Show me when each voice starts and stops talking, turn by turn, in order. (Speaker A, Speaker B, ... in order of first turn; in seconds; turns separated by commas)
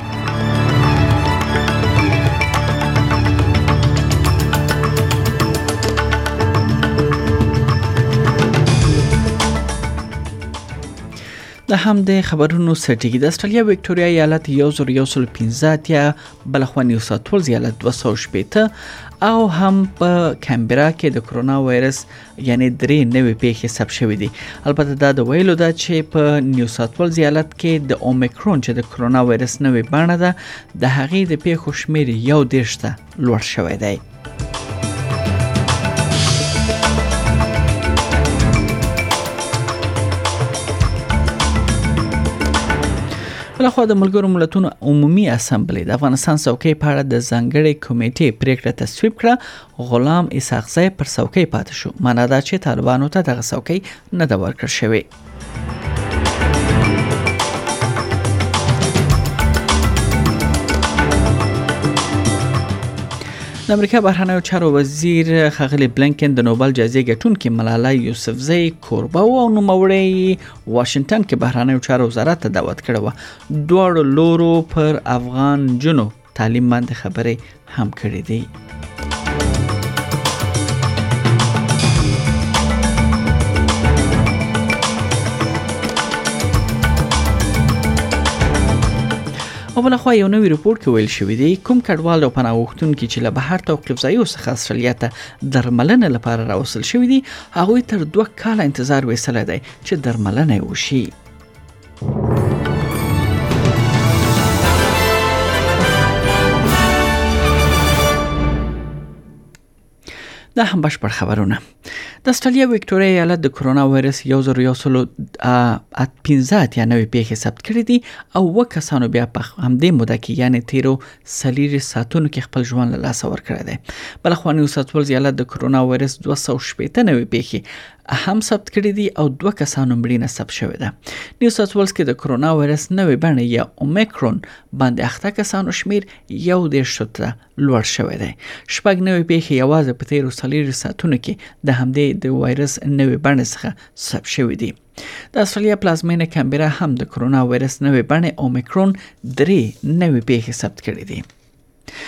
Speaker A: 11.7-18.7, Speaker A: 19.2-34.0, Speaker A: 43.6-55.1, Speaker A: 63.7-78.5, Speaker A: 89.8-101.1, Speaker A: 110.6-111.6, Speaker A: 112.2-144.8, Speaker A: 145.3-151.2